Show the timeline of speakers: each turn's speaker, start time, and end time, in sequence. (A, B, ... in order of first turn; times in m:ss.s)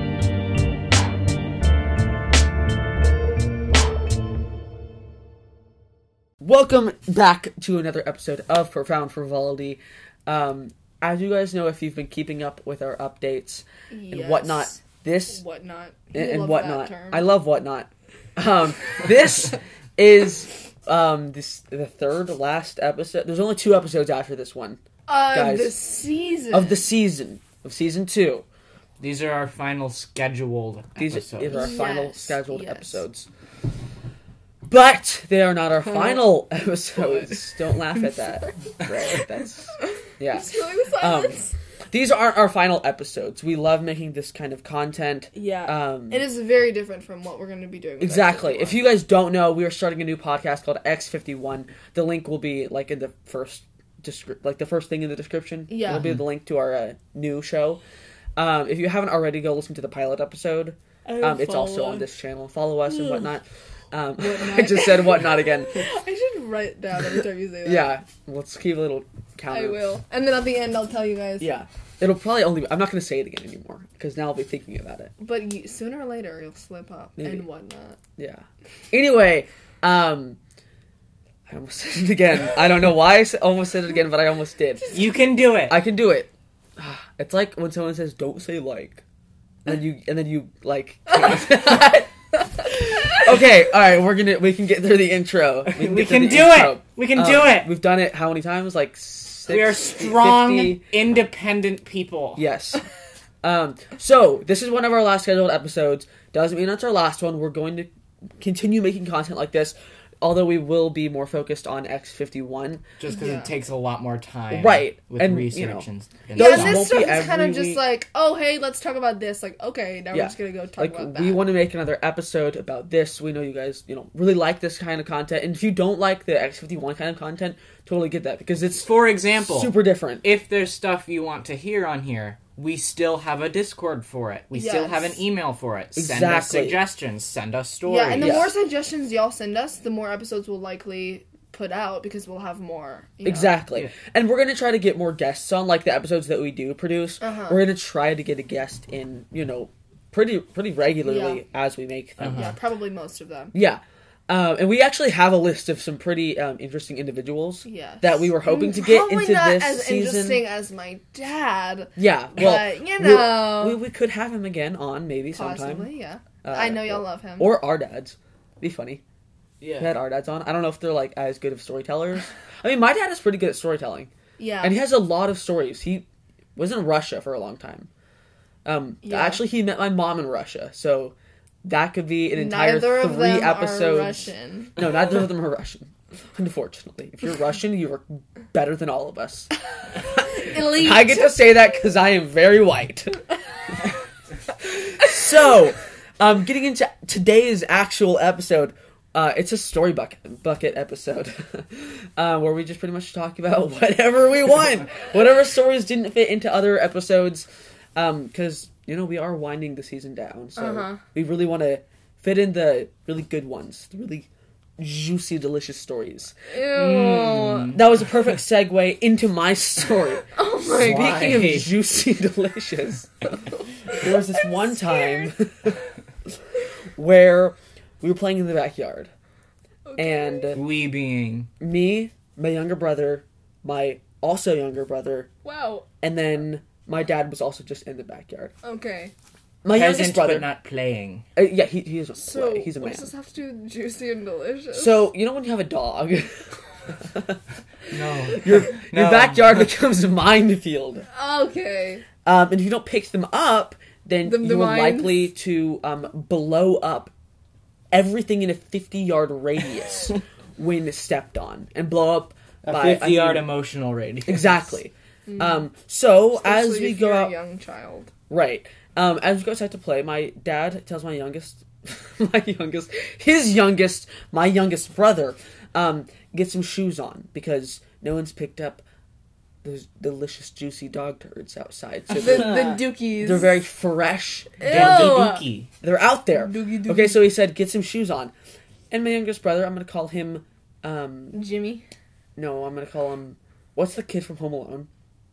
0:06.4-0:15.4 A
0:13.9-0:14.8 B
0:15.3-0:17.3 B
0:16.1-0:24.8 A
0:25.1-0:26.8 B
0:25.3-0:25.7 A
0:26.5-0:28.4 A
0:29.0-0:31.7 C
0:31.0-0:33.3 A
0:31.5-0:33.0 B
0:34.7-0:41.4 A
0:40.3-0:41.5 B
0:41.9-0:46.3 A
0:45.3-0:48.8 B
0:48.0-0:57.8 A
0:55.7-0:56.1 B
0:55.9-0:56.2 C
0:58.4-1:05.8 A
1:01.2-1:01.8 C
1:01.2-1:02.0 B
1:04.2-1:07.9 B
1:07.6-1:09.8 A
1:09.5-1:11.5 B
1:11.4-1:15.1 A
1:15.2-1:18.0 B
1:17.2-1:17.4 A
1:18.2-1:20.4 A
1:21.5-1:24.9 A
1:24.9-1:25.8 C
1:25.7-1:29.0 A
1:29.6-1:40.8 A
1:35.7-1:37.7 C
1:39.5-1:42.4 C
1:42.4-1:42.8 A
1:43.4-1:47.9 A
1:48.4-1:52.8 A
1:53.0-1:57.0 C
1:53.1-1:53.5 B
1:54.5-1:57.8 A
1:56.4-2:01.4 B
2:00.1-2:08.9 A
2:08.8-2:18.5 C
2:09.4-2:10.2 A
2:14.5-2:15.2 B
2:15.9-2:16.8 A
2:17.8-2:23.6 B
2:18.2-2:18.5 A
2:23.2-2:32.5 A
2:27.2-2:27.6 B
2:31.0-2:31.4 B
2:32.2-2:32.5 C
2:32.3-2:33.5 B
2:33.5-2:40.4 A
2:37.6-2:43.8 B
2:42.0-2:45.9 A
2:45.3-2:47.5 B
2:46.4-2:49.0 A
2:49.6-2:49.9 C
2:49.8-2:57.9 A
2:54.4-2:54.8 B
2:58.6-3:09.5 A
2:59.0-2:59.4 B
3:02.4-3:04.8 B
3:10.0-3:13.2 A
3:10.1-3:11.4 B
3:14.6-3:36.3 A
3:30.6-3:31.0 B
3:36.5-3:37.8 B
3:36.7-3:37.8 C
3:37.7-3:45.8 A
3:40.3-3:41.4 B
3:40.7-3:41.7 C
3:43.9-3:45.3 B
3:47.0-3:49.1 A
3:49.9-3:50.6 B
3:50.0-3:50.6 A
3:50.5-3:51.5 C
3:51.6-3:55.3 A
3:55.4-3:55.9 B
3:56.0-3:58.5 A
3:58.6-3:59.1 B
3:59.6-4:00.5 A
3:59.7-4:01.2 C
4:01.3-4:03.1 A
4:02.2-4:05.0 B
4:04.7-4:07.4 A
4:07.9-4:09.7 C
4:08.0-4:11.0 A
4:11.1-4:12.0 B
4:12.2-4:17.1 A
4:14.2-4:15.2 B
4:17.9-4:23.5 A
4:22.6-4:24.7 C
4:24.3-4:27.3 A
4:25.3-4:25.6 B
4:26.4-4:28.1 B
4:28.3-4:38.8 A
4:39.6-4:45.2 A
4:42.1-4:43.5 B
4:42.2-4:42.7 C
4:44.6-4:45.4 B
4:44.6-4:45.7 C
4:45.8-4:48.3 A
4:46.3-4:47.2 B
4:48.9-4:51.4 A
4:51.3-4:51.8 B
4:52.4-4:54.9 A